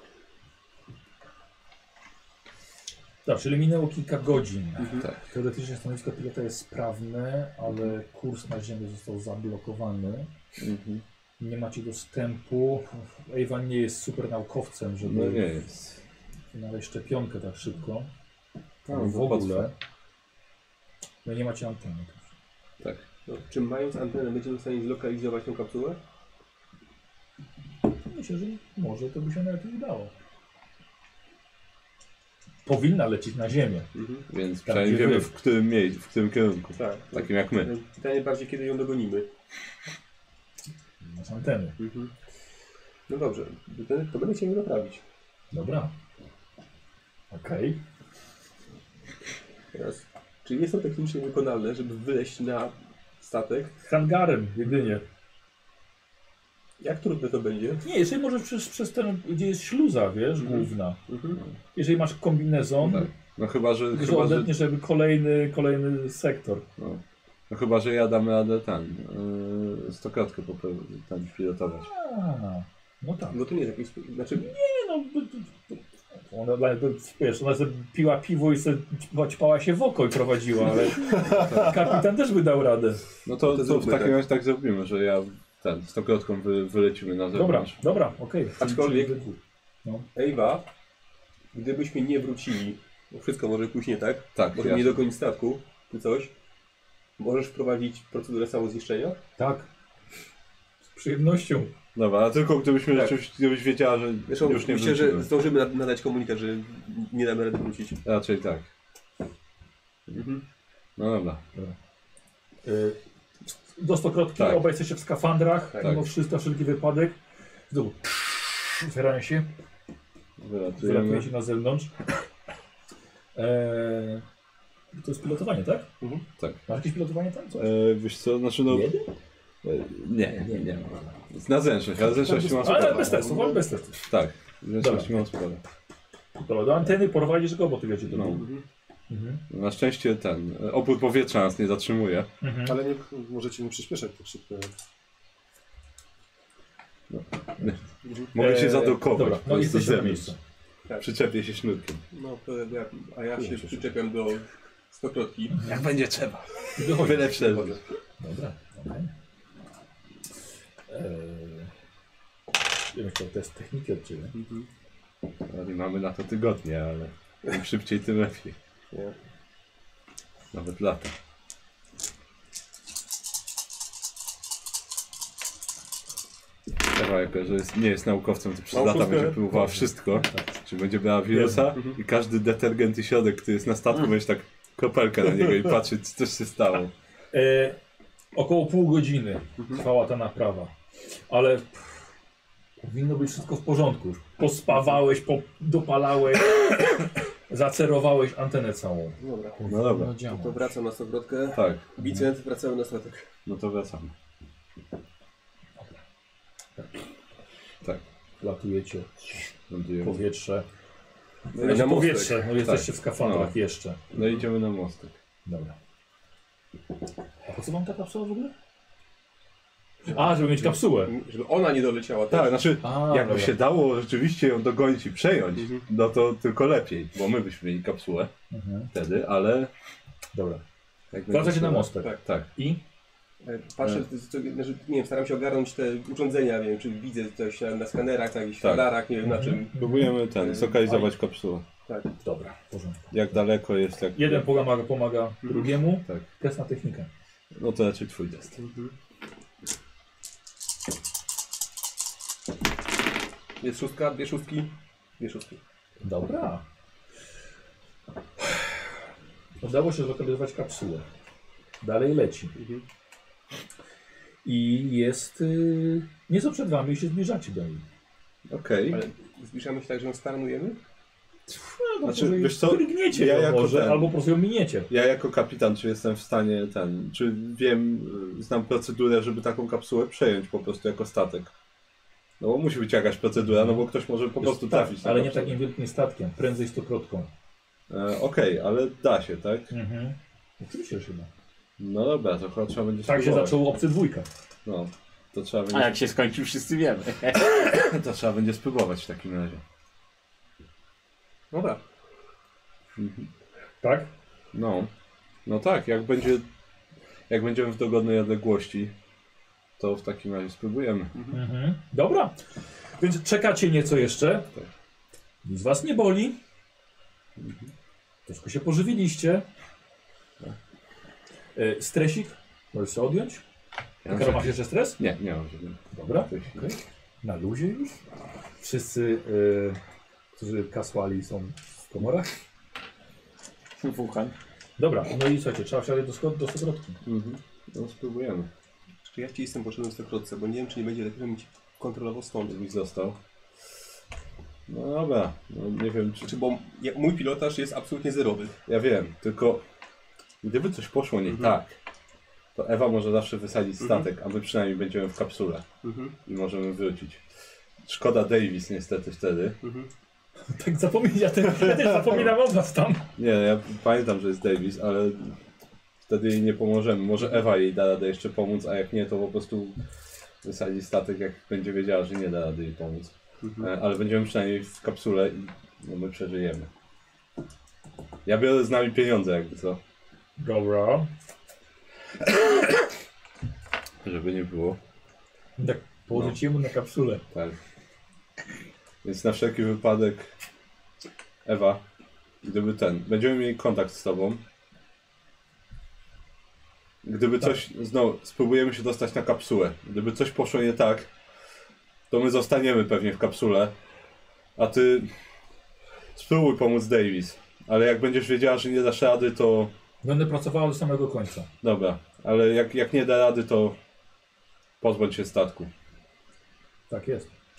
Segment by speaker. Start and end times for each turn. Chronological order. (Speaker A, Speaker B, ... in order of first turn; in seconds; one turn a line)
Speaker A: 3.2-10.3
Speaker B: 4.8-5.1
Speaker C: 10.6-11.0
Speaker A: 11.4-15.4
Speaker C: 15.0-16.0
Speaker A: 16.5-18.1
Speaker C: 18.9-19.7
Speaker A: 18.9-19.7
Speaker A: 21.2-22.2
Speaker B: 23.3-26.0
Speaker A: 28.1-30.1
Speaker A: 32.6-33.9
Speaker B: 33.9-34.2
Speaker C: 34.3-37.7
Speaker A: 34.6-35.3
Speaker B: 36.8-39.3
Speaker A: 41.1-41.8
Speaker B: 41.8-42.1
Speaker B: 43.1-45.0
Speaker A: 45.5-45.9
Speaker A: 47.3-47.8
Speaker B: 49.7-53.7
Speaker A: 53.8-55.0
Speaker B: 56.8-57.8
Speaker A: 57.8-61.0
Speaker B: 60.4-61.4
Speaker A: 61.7-63.1
Speaker C: 63.0-64.5
Speaker A: 63.9-66.7
Speaker C: 66.8-71.9
Speaker A: 71.8-73.4
Speaker B: 73.3-74.5
Speaker A: 74.4-83.0
Speaker C: 81.3-81.8
Speaker C: 83.2-87.8
Speaker B: 83.4-84.2
Speaker A: 87.3-90.1
Speaker B: 88.6-89.1
Speaker B: 90.1-90.7
Speaker B: 91.5-96.3
Speaker C: 94.3-95.0
Speaker B: 97.2-99.2
Speaker A: 99.4-99.7
Speaker A: 100.9-101.7
Speaker C: 101.9-105.3
Speaker B: 104.3-108.0
Speaker C: 108.0-108.7
Speaker B: 110.1-110.4
Speaker C: 111.0-111.4
Speaker A: 112.6-117.2
Speaker C: 114.4-114.6
Speaker A: 117.7-119.5
Speaker C: 120.4-121.3
Speaker A: 120.8-121.9
Speaker A: 123.3-124.2
Speaker A: 124.9-125.9
Speaker A: 126.7-127.7
Speaker C: 127.5-128.9
Speaker A: 128.7-129.1
Speaker C: 129.6-133.2
Speaker A: 130.3-131.1
Speaker D: 132.0-133.6
Speaker A: 132.3-134.0
Speaker C: 134.1-135.6
Speaker A: 134.8-135.1
Speaker A: 136.4-138.4
Speaker C: 138.1-138.4
Speaker B: 138.3-138.6
Speaker A: 139.1-139.4
Speaker C: 139.5-142.3
Speaker A: 142.4-142.8
Speaker D: 142.7-144.7
Speaker C: 147.1-150.3
Speaker B: 148.0-148.3
Speaker A: 148.3-150.4
Speaker C: 151.0-152.0
Speaker B: 152.1-155.7
Speaker C: 153.5-153.8
Speaker C: 155.6-157.8
Speaker A: 156.8-157.5
Speaker B: 157.3-157.8
Speaker A: 158.2-159.1
Speaker A: 160.9-161.7
Speaker A: 162.9-164.3
Speaker B: 164.3-164.7
Speaker C: 165.5-168.6
Speaker C: 170.5-171.1
Speaker C: 176.9-186.9
Speaker B: 178.7-179.4
Speaker A: 179.5-180.4
Speaker A: 181.3-181.7
Speaker A: 187.3-187.8
Speaker A: 188.3-190.7
Speaker A: 191.3-192.0
Speaker A: 192.8-200.7
Speaker B: 199.2-199.6
Speaker C: 199.7-200.2
Speaker B: 200.2-203.3
Speaker C: 201.5-201.9
Speaker C: 203.4-204.1
Speaker A: 208.4-209.4
Speaker C: 209.7-210.2
Speaker A: 210.0-210.7
Speaker C: 211.5-211.8
Speaker A: 211.6-214.0
Speaker B: 211.6-212.4
Speaker C: 212.6-213.5
Speaker C: 214.1-215.1
Speaker A: 215.4-215.7
Speaker A: 217.4-218.5
Speaker B: 220.1-222.7
Speaker A: 220.1-221.1
Speaker C: 222.3-228.3
Speaker A: 222.8-223.5
Speaker B: 225.6-225.8
Speaker A: 228.5-228.9
Speaker C: 228.9-229.7
Speaker A: 230.3-230.6
Speaker C: 231.1-232.5
Speaker A: 231.3-232.8
Speaker B: 233.4-239.8
Speaker C: 238.6-238.9
Speaker A: 239.2-240.2
Speaker C: 239.8-241.6
Speaker B: 240.3-241.1
Speaker B: 241.8-242.1
Speaker A: 242.2-243.1
Speaker C: 243.1-244.4
Speaker A: 244.1-247.1
Speaker B: 245.4-245.7
Speaker C: 247.5-248.6
Speaker B: 248.6-248.9
Speaker B: 253.6-255.6
Speaker A: 256.0-256.6
Speaker A: 259.6-261.1
Speaker A: 261.8-262.5
Speaker B: 262.6-262.8
Speaker A: 264.4-267.8
Speaker C: 268.5-269.0
Speaker B: 268.9-270.8
Speaker A: 271.5-274.9
Speaker C: 272.0-274.1
Speaker C: 274.9-281.5
Speaker C: 282.4-285.6
Speaker A: 283.4-283.9
Speaker A: 284.4-287.3
Speaker C: 287.9-289.7
Speaker A: 289.7-291.3
Speaker C: 291.8-293.6
Speaker A: 293.0-294.3
Speaker C: 294.6-296.0
Speaker E: 295.7-297.5
Speaker C: 297.6-299.6
Speaker B: 301.5-301.8
Speaker C: 303.0-303.3
Speaker A: 303.8-304.1
Speaker C: 304.5-304.9
Speaker C: 305.4-306.5
Speaker C: 307.3-308.9
Speaker C: 309.8-311.1
Speaker B: 311.1-311.4
Speaker A: 311.3-312.4
Speaker A: 313.0-314.5
Speaker A: 315.4-316.4
Speaker C: 317.4-317.7
Speaker A: 318.3-319.4
Speaker A: 321.6-323.4
Speaker C: 324.0-326.7
Speaker A: 324.1-325.0
Speaker A: 325.9-328.0
Speaker A: 328.6-329.8
Speaker A: 330.3-332.3
Speaker E: 333.8-334.3
Speaker A: 334.8-337.0
Speaker C: 337.0-338.5
Speaker B: 339.0-342.6
Speaker C: 342.4-343.2
Speaker C: 344.7-346.3
Speaker B: 346.2-348.6
Speaker C: 348.6-349.6
Speaker C: 350.4-351.7
Speaker B: 351.3-351.5
Speaker C: 352.5-355.7
Speaker B: 353.8-354.1
Speaker B: 355.8-356.1
Speaker C: 356.2-357.2
Speaker C: 357.8-359.6
Speaker B: 359.6-359.9
Speaker A: 360.5-363.1
Speaker C: 361.7-362.2
Speaker C: 363.2-365.3
Speaker C: 366.1-369.8
Speaker C: 370.4-376.7
Speaker B: 373.4-373.7
Speaker C: 378.2-379.8
Speaker A: 380.4-381.1
Speaker C: 384.0-384.8
Speaker A: 385.6-387.2
Speaker C: 387.3-387.6
Speaker C: 389.0-390.3
Speaker C: 391.4-391.8
Speaker C: 392.4-394.4
Speaker C: 397.0-401.1
Speaker C: 402.1-403.7
Speaker C: 404.6-405.1
Speaker C: 406.1-409.7
Speaker A: 410.0-411.5
Speaker C: 411.6-413.8
Speaker C: 414.8-415.7
Speaker A: 416.9-417.3